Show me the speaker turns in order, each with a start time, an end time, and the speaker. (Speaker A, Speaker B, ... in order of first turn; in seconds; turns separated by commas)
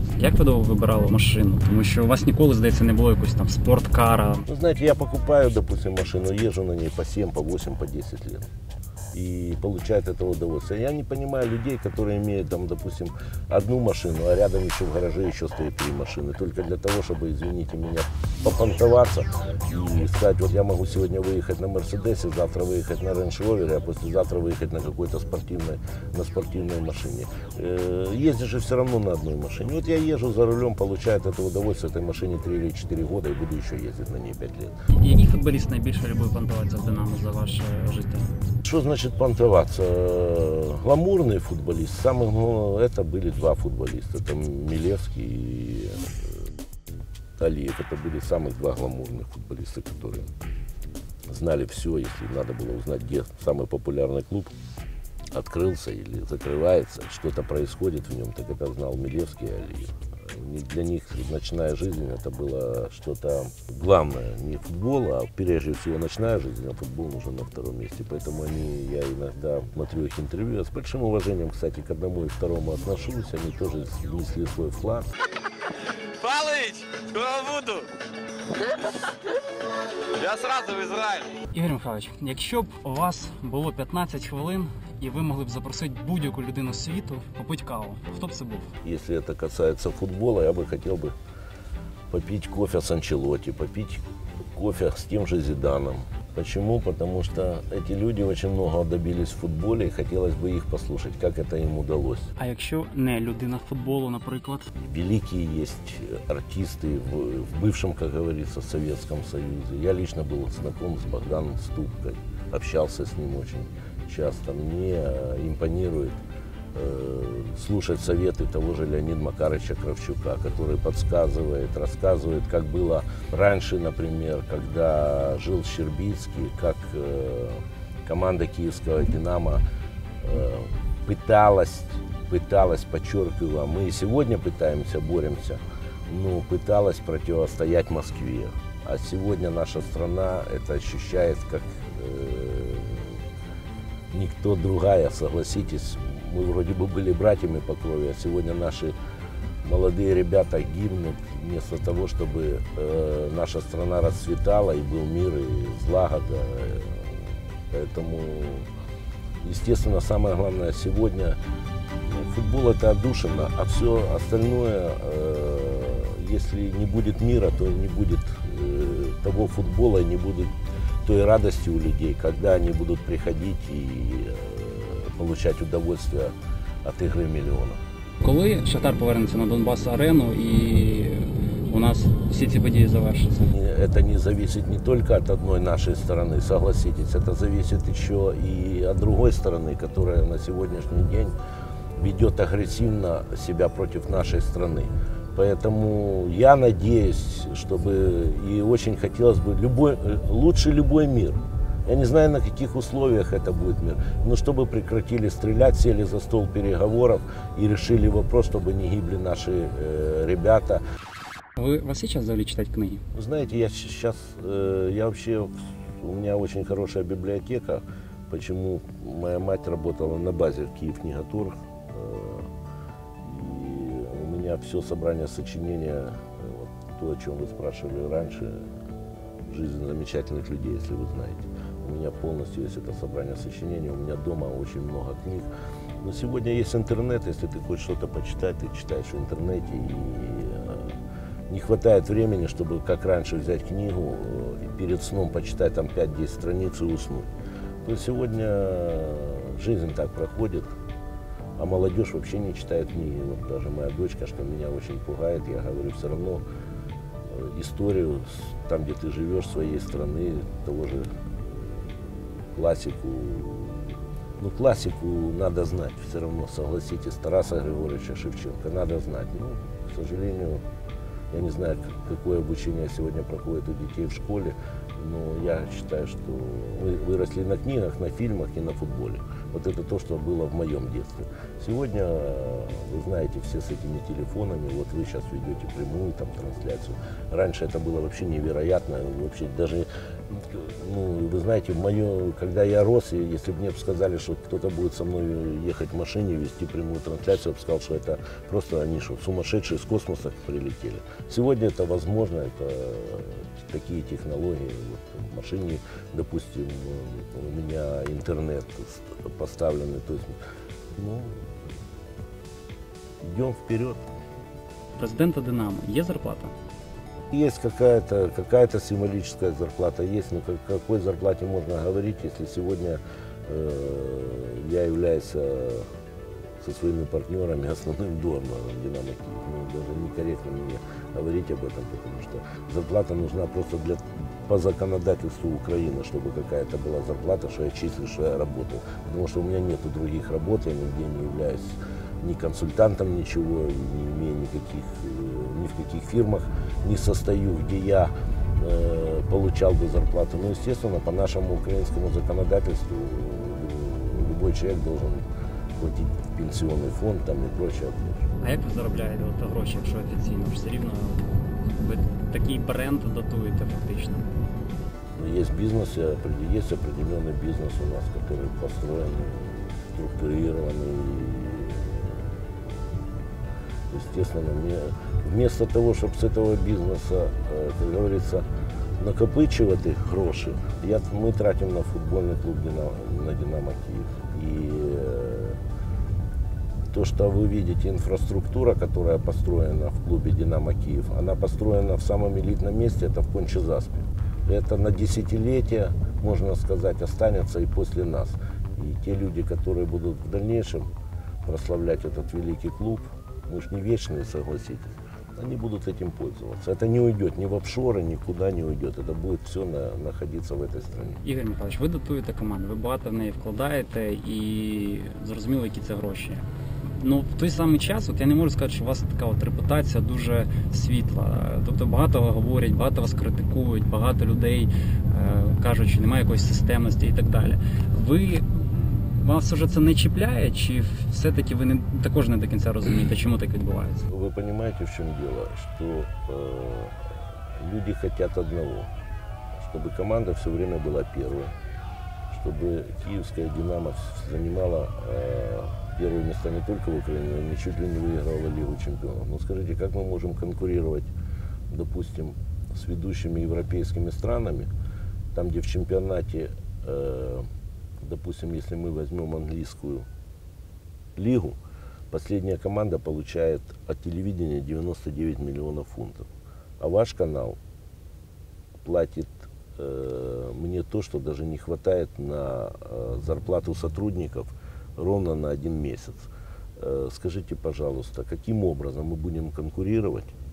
Speaker A: 0.2-4.5, Speaker B: 4.5-8.5, Speaker B: 9.1-34.8, Speaker A: 34.9-38.4, Speaker B: 38.6-46.3, Speaker B: 47.4-50.3, Speaker B: 51.3-54.5, Speaker B: 55.3-75.1, Speaker C: 76.2-77.9, Speaker C: 80.2-81.3, Speaker A: 81.5-88.7, Speaker B: 88.8-91.1, Speaker B: 92.1-94.0, Speaker B: 94.5-102.3, Speaker A: 102.4-104.7, Speaker B: 104.8-116.2, Speaker B: 116.7-129.6, Speaker B: 130.2-143.2, Speaker B: 144.1-148.9, Speaker B: 149.6-158.7, Speaker B: 159.4-161.4, Speaker B: 162.0-170.5, Speaker B: 171.1-177.8, Speaker A: 178.2-183.4, Speaker B: 183.3-191.4, Speaker B: 192.0-210.8, Speaker A: 211.6-213.0, Speaker B: 213.1-222.5, Speaker B: 223.2-228.8, Speaker B: 229.4-235.5, Speaker B: 236.0-241.0, Speaker B: 241.5-247.3, Speaker B: 247.8-250.8, Speaker B: 251.6-256.4, Speaker B: 257.3-270.6, Speaker B: 271.3-310.4, Speaker B: 310.9-311.5, Speaker B: 313.2-314.0, Speaker A: 315.0-316.5, Speaker B: 317.3-325.9, Speaker B: 326.6-355.3, Speaker B: 355.8-358.3, Speaker A: 358.4-364.3, Speaker B: 365.2-372.5, Speaker B: 373.9-378.5, Speaker B: 379.0-385.6, Speaker B: 386.9-400.9, Speaker B: 401.4-411.2, Speaker A: 411.2-434.1, Speaker B: 434.1-438.9, Speaker B: 439.6-441.6, Speaker B: 442.3-451.1, Speaker B: 451.7-454.7, Speaker B: 455.3-457.5, Speaker B: 458.0-460.1, Speaker B: 461.2-461.6, Speaker B: 462.1-466.3, Speaker B: 466.8-467.6, Speaker B: 468.8-480.3